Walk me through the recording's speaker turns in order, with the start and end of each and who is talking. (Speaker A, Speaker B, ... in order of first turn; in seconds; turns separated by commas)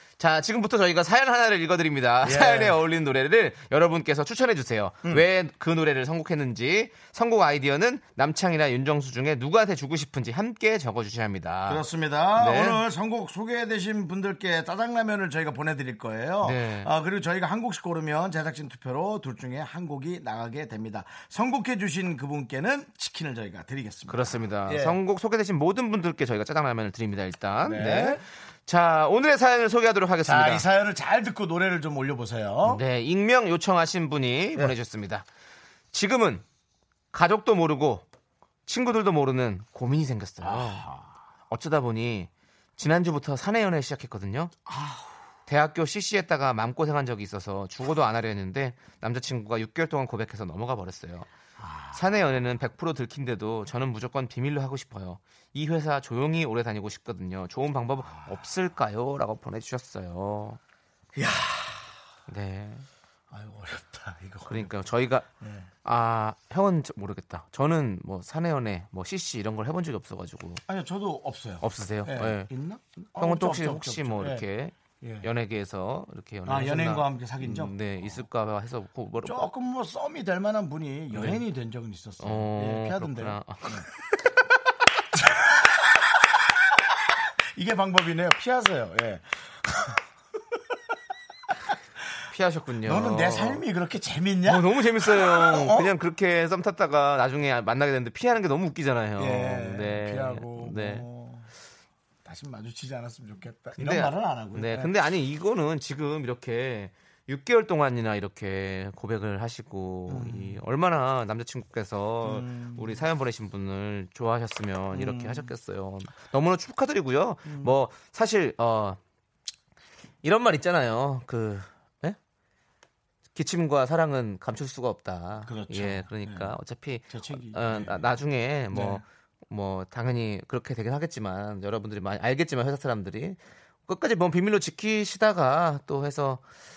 Speaker A: 0.2-11.8, Speaker B: 2.2-2.8, Speaker B: 11.7-25.0, Speaker A: 12.4-12.8, Speaker A: 16.4-16.9, Speaker A: 24.1-30.7, Speaker B: 27.6-28.2, Speaker B: 30.2-32.8, Speaker A: 32.6-35.2, Speaker A: 35.9-36.4, Speaker A: 37.1-38.0, Speaker A: 38.7-40.9, Speaker B: 40.4-41.1, Speaker A: 41.5-44.5, Speaker B: 44.7-45.2, Speaker A: 45.5-51.3, Speaker B: 51.6-52.0, Speaker A: 51.9-60.6, Speaker B: 58.1-58.4, Speaker B: 61.1-62.0, Speaker A: 62.3-62.9, Speaker B: 63.3-64.7, Speaker A: 64.5-65.3, Speaker B: 65.4-65.7, Speaker A: 65.8-70.6, Speaker B: 70.7-74.5, Speaker A: 71.6-72.5, Speaker A: 73.2-79.5, Speaker B: 75.0-75.3, Speaker B: 76.5-78.2, Speaker B: 79.2-83.9, Speaker A: 81.1-81.4, Speaker A: 82.2-83.7, Speaker B: 85.1-86.5, Speaker B: 87.5-90.0, Speaker A: 92.3-93.6, Speaker B: 92.8-95.9, Speaker A: 94.5-101.0, Speaker B: 99.2-101.5, Speaker B: 102.2-104.9, Speaker A: 103.8-119.0, Speaker B: 110.1-110.6, Speaker B: 112.2-113.0, Speaker B: 114.9-115.5, Speaker B: 117.5-117.7, Speaker A: 120.2-122.2, Speaker A: 123.3-136.4, Speaker B: 125.5-126.6, Speaker B: 127.1-128.2, Speaker B: 128.7-129.0